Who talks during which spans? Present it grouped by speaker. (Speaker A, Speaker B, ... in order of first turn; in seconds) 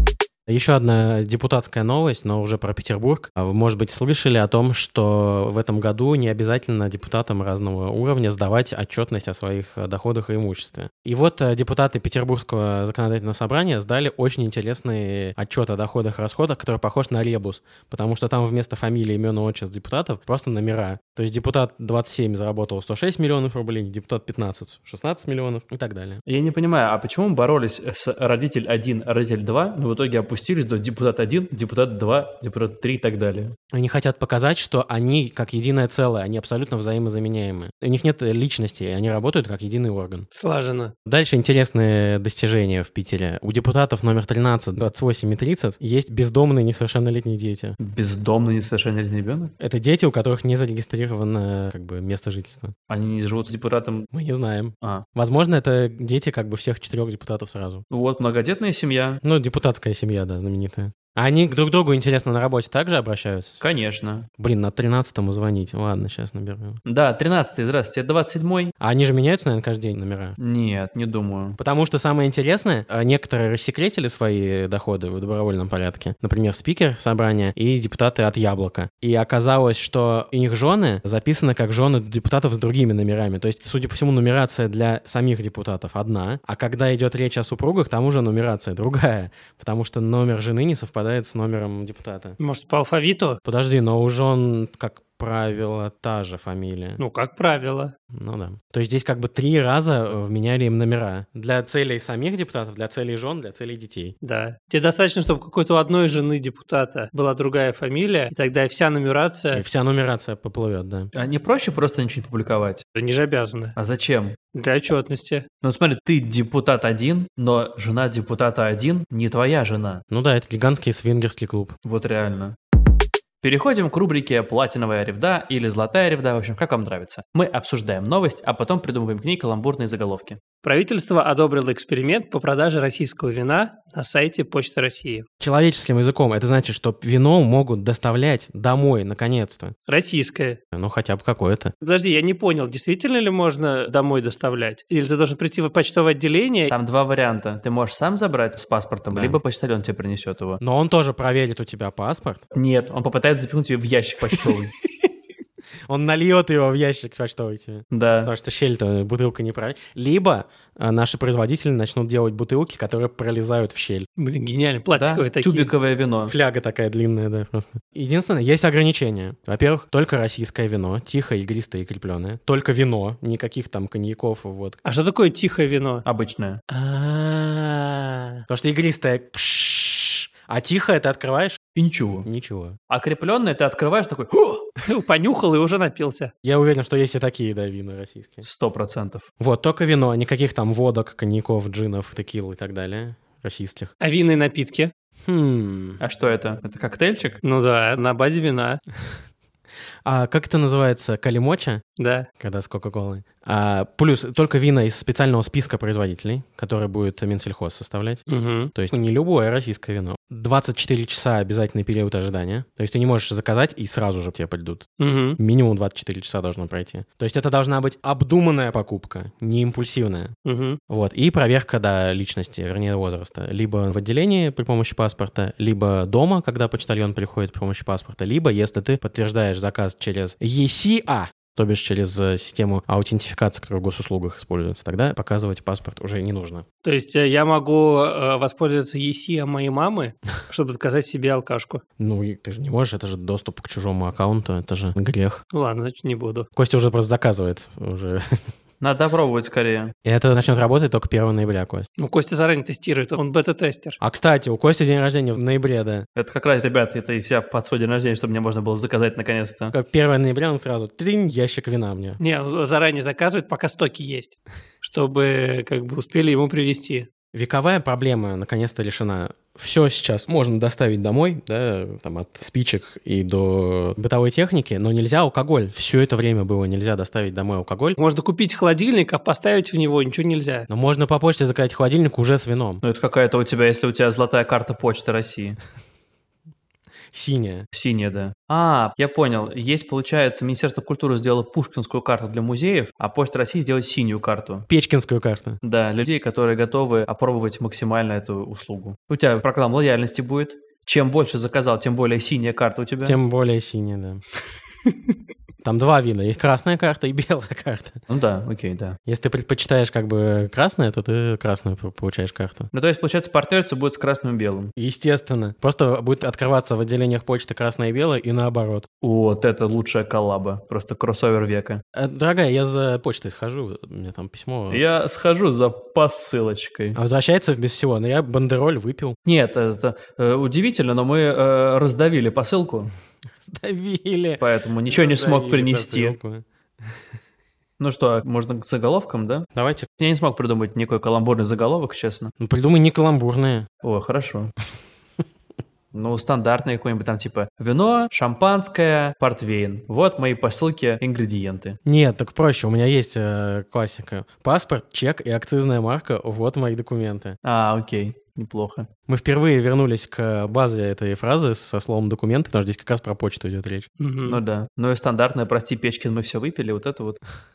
Speaker A: 0.5-26.2, 33.7-40.2, 41.0-47.8, 49.6-52.7, 54.1-57.8, 59.2-63.6, 64.4-66.8, 68.8-70.4, 71.6-92.4, 93.4-97.0, 98.1-104.1, 109.5-111.1, 120.1-121.7, 135.4-139.7, 140.7-141.7, 149.1-149.4, 150.6-152.4, 155.9-164.1, 166.3-174.8, 176.7-177.7, 178.5-181.6, 182.2-182.8, 186.4-188.4, 189.4-193.9, 195.2-196.0, 200.0-201.8, 202.4-220.3, 220.9-236.6, 242.0-245.4, 246.6-248.5, 250.0-251.9, 254.0-256.1, 259.7-262.2, 267.3-278.0, 280.7-282.8, 287.1-287.7, 294.7-295.6, 303.0-304.2, 305.6-308.0, 309.1-312.7, 314.8-318.9, 321.9-324.8, 326.9-329.2, 333.4-336.9, 339.5-339.9, 342.4-343.7, 351.8-357.4, 359.1-363.9
Speaker B: 26.2-33.5, 47.8-49.5, 52.9-54.1, 57.9-59.2, 63.6-64.3, 66.8-68.7, 70.4-71.6, 111.1-112.8, 113.8-114.4, 115.6-120.0, 121.8-122.5, 123.4-130.4, 146.7-150.6, 152.5-154.7, 157.9-158.3, 164.9-166.3, 176.0-176.6, 181.8-182.3, 182.9-184.7, 188.4-189.3, 196.0-197.4, 248.8-249.9, 256.1-259.7, 282.8-285.6, 287.7-294.6, 295.6-303.2, 308.1-309.0, 312.7-314.7, 319.0-321.8, 324.7-327.0, 329.2-332.9, 334.4-336.2, 337.8-342.3, 343.8-344.5, 345.9-351.8, 357.4-358.9, 364.2-367.2
Speaker C: 40.3-40.9, 92.4-93.4, 97.0-97.9, 104.2-109.6, 113.0-113.8, 114.5-115.5, 130.6-135.2, 139.8-140.6, 141.8-146.7, 164.2-165.7, 174.8-176.0, 177.9-178.4, 184.8-186.3, 194.0-194.9, 197.4-198.8, 202.0-202.3, 208.3-208.7, 215.0-215.4, 220.4-220.8, 236.8-241.8, 245.5-246.5, 252.0-254.0, 262.2-267.1, 278.0-280.7, 364.0-364.4